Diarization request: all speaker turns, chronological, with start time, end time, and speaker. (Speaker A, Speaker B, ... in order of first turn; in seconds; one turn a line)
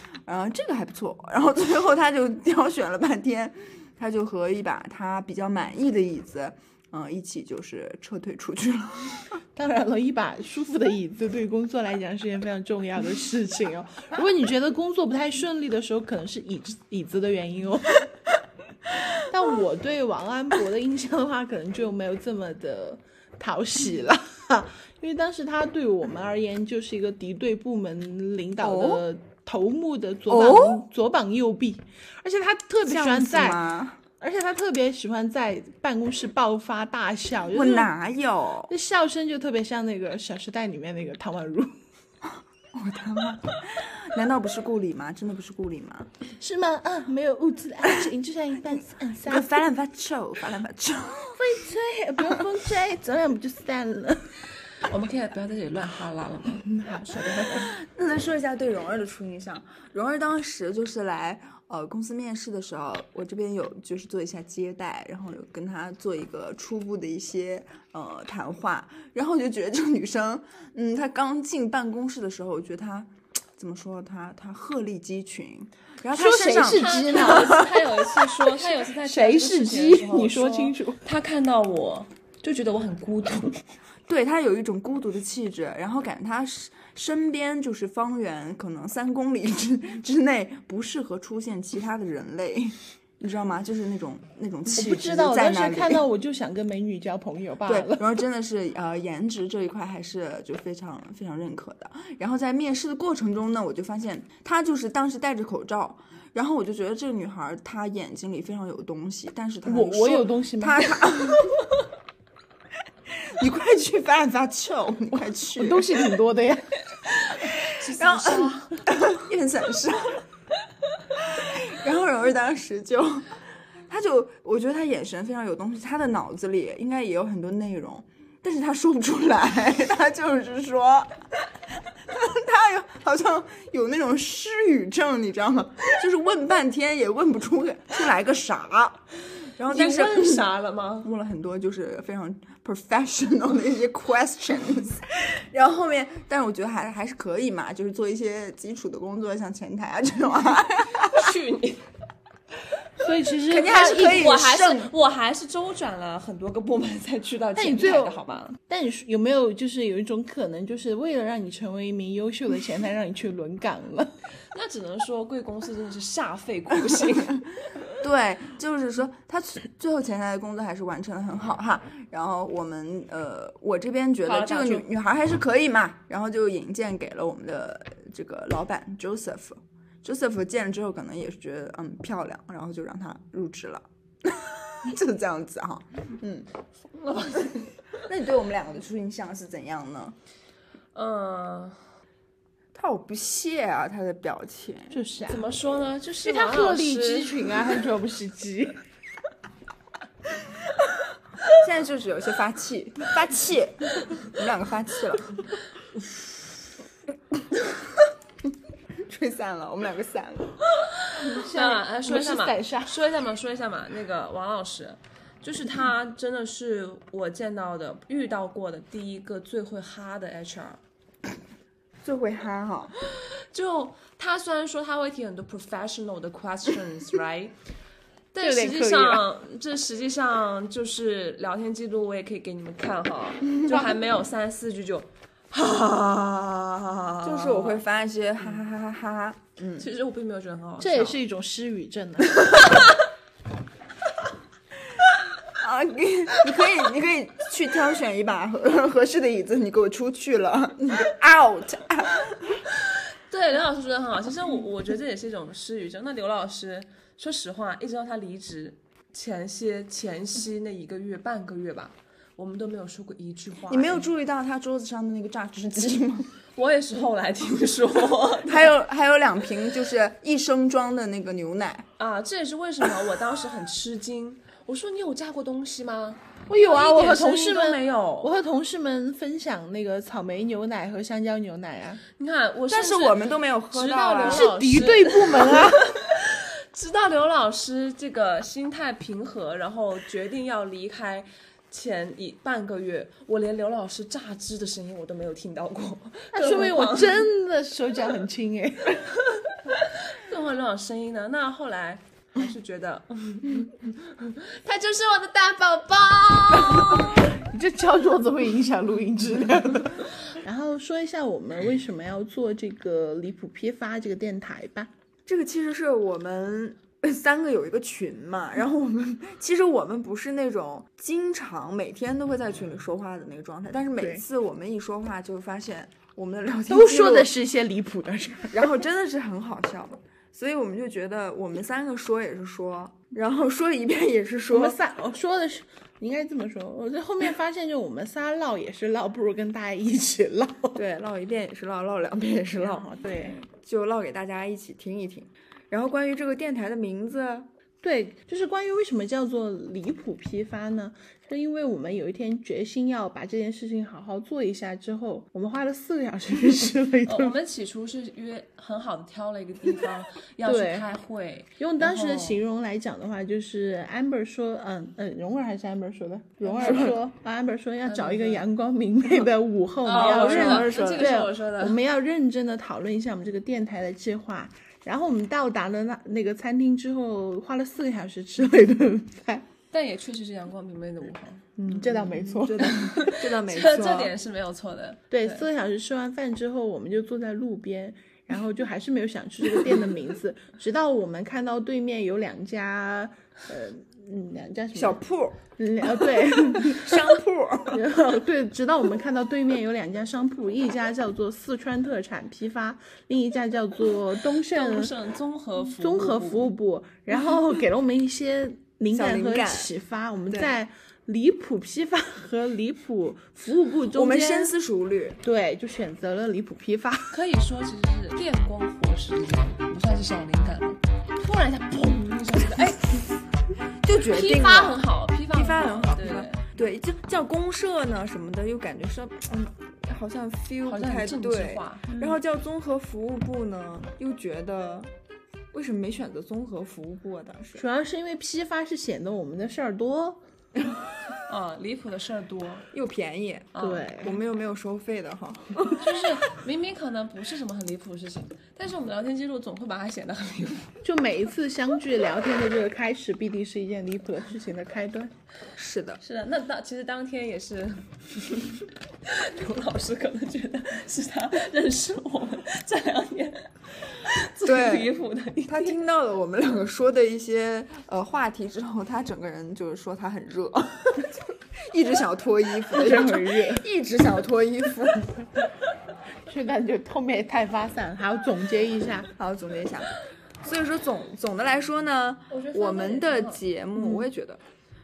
Speaker A: 0.3-9.3
Speaker B: 9.5-18.0
Speaker B: 19.3-33.6
Speaker A: 28.6-29.0
Speaker A: 30.3-30.8
Speaker A: 32.8-34.0
Speaker B: 34.2-37.9
Speaker A: 37.5-38.7
Speaker B: 38.7-41.7
Speaker A: 42.7-46.1
Speaker B: 46.4-49.6
Speaker A: 49.2-51.4
Speaker B: 51.2-54.2
Speaker C: 54.9-56.6
Speaker B: 56.6-57.7
Speaker A: 57.5-77.7
Speaker B: 76.1-77.7
Speaker C: 76.5-83.6
Speaker B: 78.9-81.0
Speaker A: 84.1-96.0
Speaker B: 94.7-98.1
Speaker A: 97.6-111.5
Speaker B: 109.6-111.1
Speaker A: 113.4-116.0
Speaker B: 115.6-116.7
Speaker C: 117.5-118.8
Speaker A: 117.9-120.2
Speaker A: 121.2-123.4
Speaker A: 123.9-131.1
Speaker A: 132.1-140.5
Speaker C: 139.7-141.1
Speaker A: 141.0-151.3
Speaker C: 151.0-151.8
Speaker B: 153.0-154.2
Speaker A: 153.5-154.9
Speaker C: 153.8-158.6
Speaker B: 157.6-164.1
Speaker C: 164.5-167.5
Speaker A: 168.0-186.5
Speaker C: 174.2-174.9
Speaker C: 186.9-187.7
Speaker A: 188.1-190.1
Speaker C: 190.9-191.8
Speaker A: 192.7-195.0
Speaker B: 194.9-195.5
Speaker C: 195.3-197.7
Speaker B: 196.2-198.8
Speaker A: 201.6-205.3
Speaker A: 209.1-210.6
Speaker C: 211.1-220.8
Speaker B: 211.2-213.0
Speaker A: 222.0-222.9
Speaker C: 223.5-227.5
Speaker C: 228.3-237.8
Speaker B: 228.4-229.2
Speaker A: 237.2-239.9
Speaker C: 239.8-241.2
Speaker B: 240.8-242.4
Speaker A: 245.6-252.4
Speaker C: 253.3-264.1
Speaker A: 263.7-266.3
Speaker C: 266.6-268.7
Speaker A: 268.4-271.8
Speaker C: 272.0-278.3
Speaker B: 276.5-282.0
Speaker C: 282.2-297.3
Speaker A: 282.7-285.6
Speaker B: 284.2-285.8
Speaker B: 296.3-299.0
Speaker C: 299.4-307.1
Speaker B: 306.7-314.9
Speaker A: 315.2-327.3
Speaker B: 324.0-324.2
Speaker B: 326.7-328.8
Speaker A: 328.5-334.8
Speaker B: 334.5-340.8
Speaker A: 340.7-347.5
Speaker B: 342.6-343.4
Speaker B: 347.8-357.4
Speaker C: 357.1-362.4
Speaker B: 360.4-360.9
Speaker B: 361.6-379.4
Speaker C: 366.4-367.0
Speaker A: 366.6-366.9
Speaker C: 367.8-368.4
Speaker C: 369.8-371.8
Speaker A: 369.9-371.1
Speaker C: 379.7-381.4
Speaker B: 381.6-383.2
Speaker A: 381.7-384.1
Speaker C: 382.6-385.5
Speaker B: 385.1-395.0
Speaker A: 394.7-395.4
Speaker B: 395.6-397.0
Speaker A: 396.3-397.8
Speaker B: 397.7-404.9
Speaker C: 404.4-406.5
Speaker B: 405.8-414.5
Speaker A: 408.9-409.7
Speaker A: 413.9-415.2
Speaker B: 415.2-417.2
Speaker C: 417.1-423.2
Speaker A: 423.8-434.9
Speaker C: 423.9-426.4
Speaker C: 430.6-431.9
Speaker B: 431.9-432.2
Speaker A: 435.5-437.6
Speaker B: 437.6-440.2
Speaker C: 441.2-442.7
Speaker A: 442.7-446.1
Speaker C: 443.5-443.9
Speaker B: 443.6-444.2
Speaker C: 445.8-450.7
Speaker B: 450.8-455.1
Speaker A: 455.6-456.0
Speaker C: 456.0-465.8
Speaker A: 464.4-475.3
Speaker B: 472.7-473.6
Speaker B: 476.2-479.1
Speaker A: 479.2-479.9
Speaker A: 480.4-484.4
Speaker C: 482.3-483.4
Speaker B: 483.8-484.0